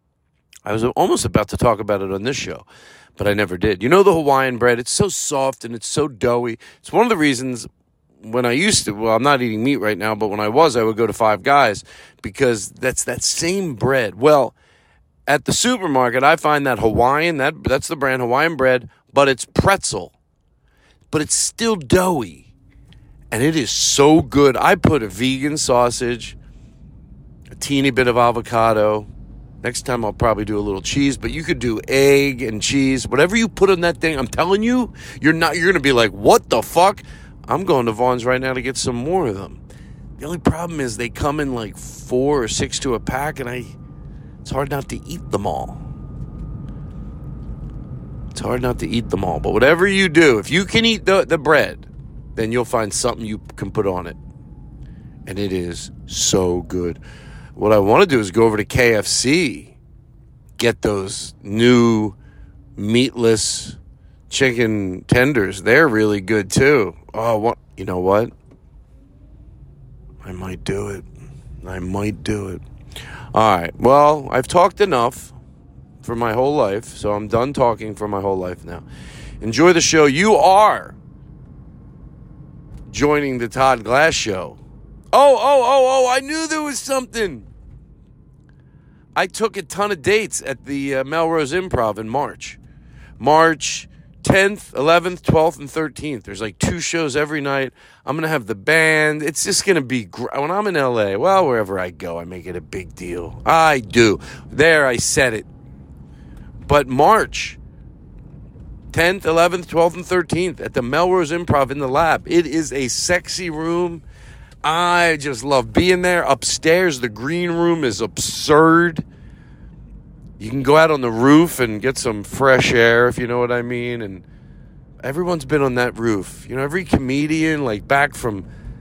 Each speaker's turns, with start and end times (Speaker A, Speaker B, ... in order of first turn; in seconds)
Speaker A: 0.6-2.6, 3.2-7.7, 8.2-14.6, 15.3-20.1, 21.1-22.5, 23.3-26.4, 27.5-29.1, 29.6-39.6, 40.2-43.8, 44.4-45.8, 48.3-54.2, 55.2-57.0, 57.6-59.8, 60.6-62.2, 62.8-63.8, 64.3-68.3, 70.2-71.1, 71.6-72.6, 73.3-75.3, 76.0-78.8, 79.4-81.0, 82.9-84.6, 85.1-87.5, 89.1-92.6, 93.2-105.5, 106.6-107.6, 108.9-114.0, 114.6-119.1, 120.4-124.2, 125.0-128.5